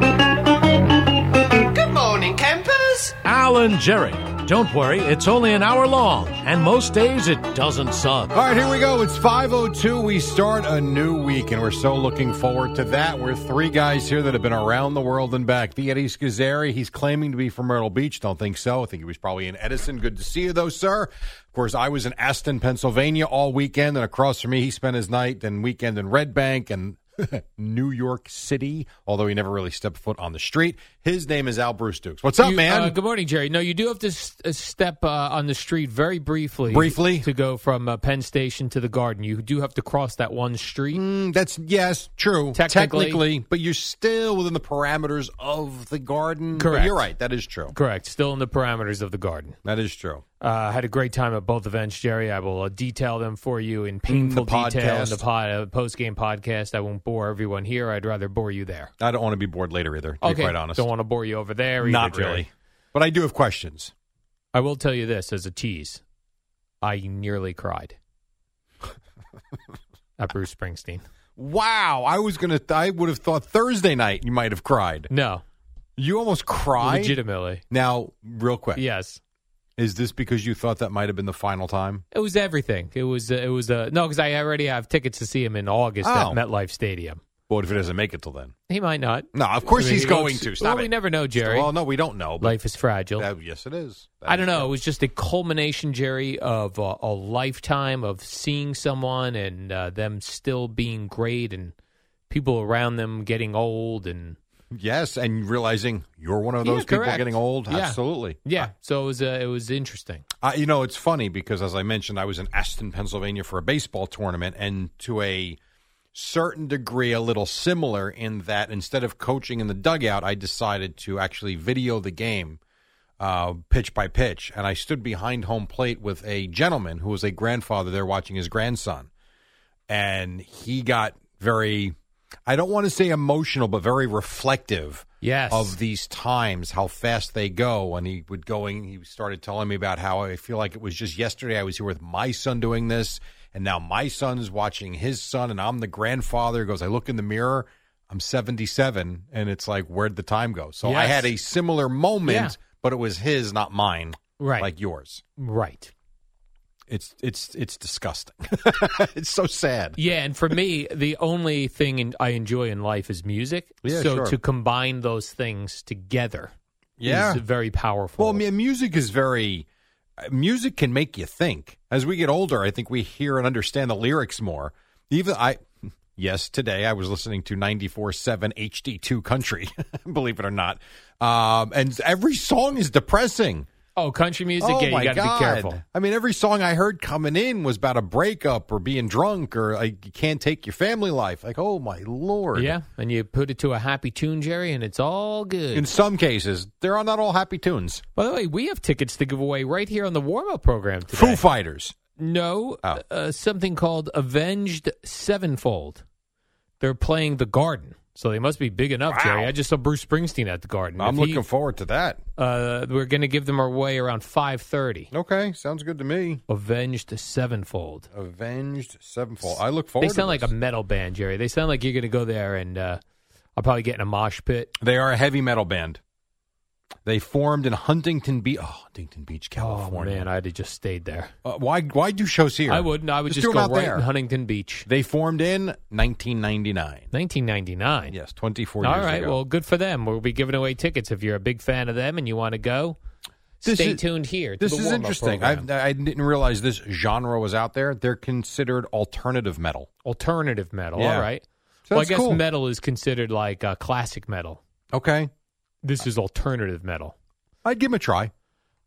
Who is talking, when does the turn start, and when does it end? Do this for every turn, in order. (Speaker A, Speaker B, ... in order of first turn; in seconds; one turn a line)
Speaker A: 3.2-8.3
Speaker B: 8.3-33.0
Speaker C: 32.4-41.0
Speaker B: 36.7-37.3
Speaker B: 40.9-47.7
Speaker C: 42.5-43.2
Speaker C: 46.5-47.0
Speaker C: 47.7-49.6
Speaker B: 49.6-50.2
Speaker C: 50.4-58.9
Speaker B: 54.1-55.2
Speaker B: 59.0-60.9
Speaker C: 60.2-62.4
Speaker B: 61.8-63.9
Speaker C: 64.5-66.0
Speaker C: 66.8-68.0
Speaker C: 70.2-71.0
Speaker B: 71.4-75.1
Speaker C: 75.1-75.4
Speaker B: 76.0-77.2
Speaker C: 76.8-77.6
Speaker B: 77.7-78.8
Speaker C: 78.8-79.2
Speaker B: 79.8-82.0
Speaker C: 82.1-87.2
Speaker B: 86.0-86.4
Speaker B: 87.5-88.5
Speaker C: 88.7-91.7
Speaker B: 89.3-92.6
Speaker C: 92.4-93.3
Speaker B: 93.2-94.7
Speaker C: 94.3-101.7
Speaker C: 102.3-104.4
Speaker B: 104.7-108.7
Speaker C: 106.6-110.2
Speaker B: 110.4-115.6
Speaker B: 116.1-122.6
Speaker B: 123.2-129.1
Speaker B: 129.9-131.9
Speaker B: 132.5-155.2
Speaker C: 135.2-135.8
Speaker C: 150.8-151.3
Speaker C: 152.2-152.5
Speaker C: 154.4-154.7
Speaker C: 155.4-155.9
Speaker B: 156.9-160.0
Speaker C: 160.0-166.5
Speaker B: 163.8-164.4
Speaker B: 167.0-167.4
Speaker C: 167.0-168.4
Speaker B: 168.2-169.7
Speaker B: 170.2-183.7
Speaker C: 184.0-185.8
Speaker B: 184.6-192.8
Speaker C: 192.5-195.9
Speaker B: 195.7-198.0
Speaker C: 198.2-201.4
Speaker B: 201.1-202.0
Speaker C: 202.2-206.0
Speaker C: 206.8-211.4
Speaker B: 209.1-209.5
Speaker B: 211.0-212.2
Speaker C: 212.4-215.1
Speaker B: 215.1-216.4
Speaker C: 216.5-218.1
Speaker B: 218.1-220.5
Speaker C: 219.4-223.0
Speaker C: 223.6-224.7
Speaker B: 224.8-226.0
Speaker B: 227.0-230.3
Speaker C: 229.6-231.3
Speaker B: 231.4-234.1
Speaker C: 232.7-234.9
Speaker B: 234.9-237.1
Speaker C: 237.1-238.2
Speaker B: 238.1-239.4
Speaker C: 238.8-243.0
Speaker C: 243.6-245.7
Speaker B: 243.6-244.0
Speaker B: 244.6-249.9
Speaker C: 250.0-254.6
Speaker B: 251.0-251.3
Speaker B: 251.9-252.4
Speaker B: 254.9-255.3
Speaker C: 255.8-257.1
Speaker B: 257.6-258.3